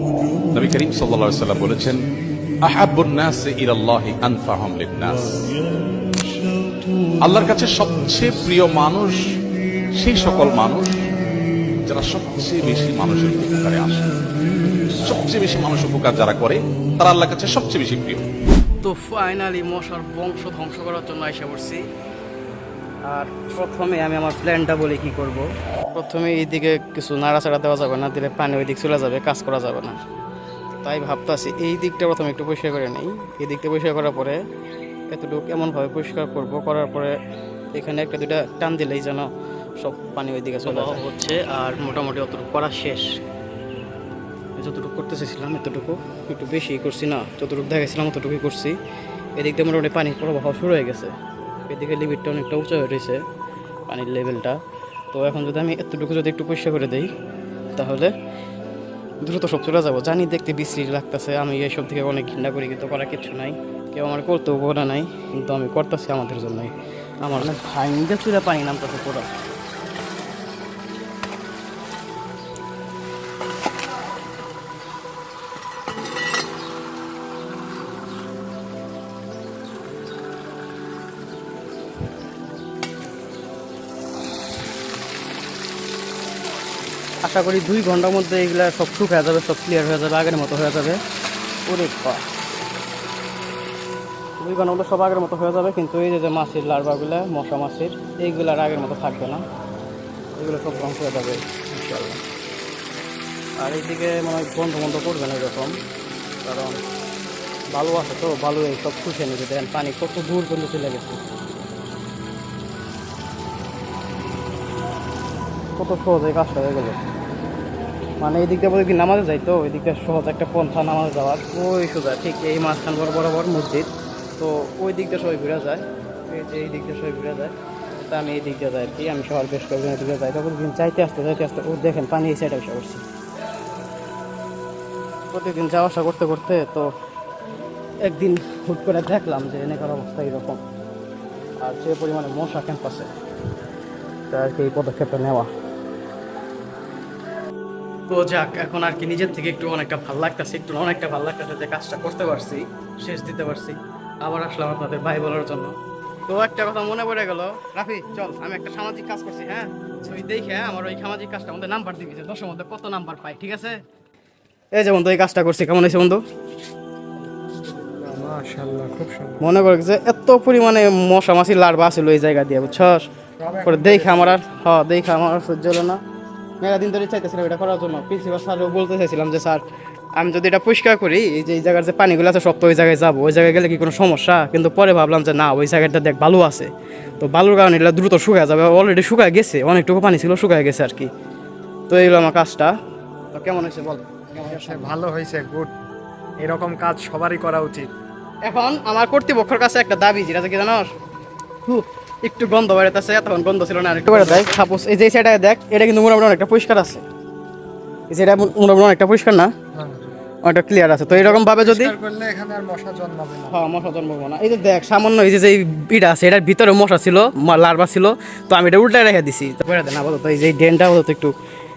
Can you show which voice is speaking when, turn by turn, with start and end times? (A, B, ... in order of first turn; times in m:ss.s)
0:00.5-0:02.0 A
0:02.6-0:05.5 A
0:07.2-0:09.2 A
0:10.0-0:10.9 A
0:11.8-0:14.1 A
0:15.0-0:18.2 A
0:18.8-0:21.8 B
0:23.0-0:30.0 B
0:30.8-0:34.4 B
0:35.1-0:37.2 B
0:37.7-0:39.3 B
0:39.8-0:43.0 B
0:44.6-0:48.8 B
0:49.4-0:51.1 B
0:51.7-0:53.2 B
0:53.9-0:54.6 B
0:55.1-0:57.1 B
0:57.8-0:58.1 B
0:59.2-1:09.3 B
1:27.2-1:31.0 B
1:31.7-1:32.2 B
1:34.4-1:39.4 B
1:40.4-1:42.2 B
1:43.6-1:45.7 B
1:46.4-1:46.8 B
1:47.7-1:51.2 B
1:55.8-1:57.0 B
1:58.2-2:13.0 B
2:15.3-2:16.9 B
2:18.0-2:20.6 B
2:21.6-2:23.1 B
2:24.3-2:25.5 B
2:28.1-2:35.8 B
2:36.3-2:43.8 B
2:44.7-2:46.2 B
2:47.4-2:49.5 C
2:49.4-2:53.1 B
2:53.4-2:54.4 C
2:53.6-2:56.0 B
2:56.6-2:59.6 B
3:00.2-3:11.1 B
3:11.9-3:12.7 B
3:13.3-3:14.9 B
3:14.5-3:15.7 C
3:16.4-3:17.9 C
3:18.4-3:20.9 B
3:21.7-3:27.0 B
3:24.1-3:24.5 C
3:28.1-3:29.5 B
3:29.7-3:30.1 C
3:30.4-3:31.9 B
3:31.1-3:33.6 C
3:33.5-3:41.3 B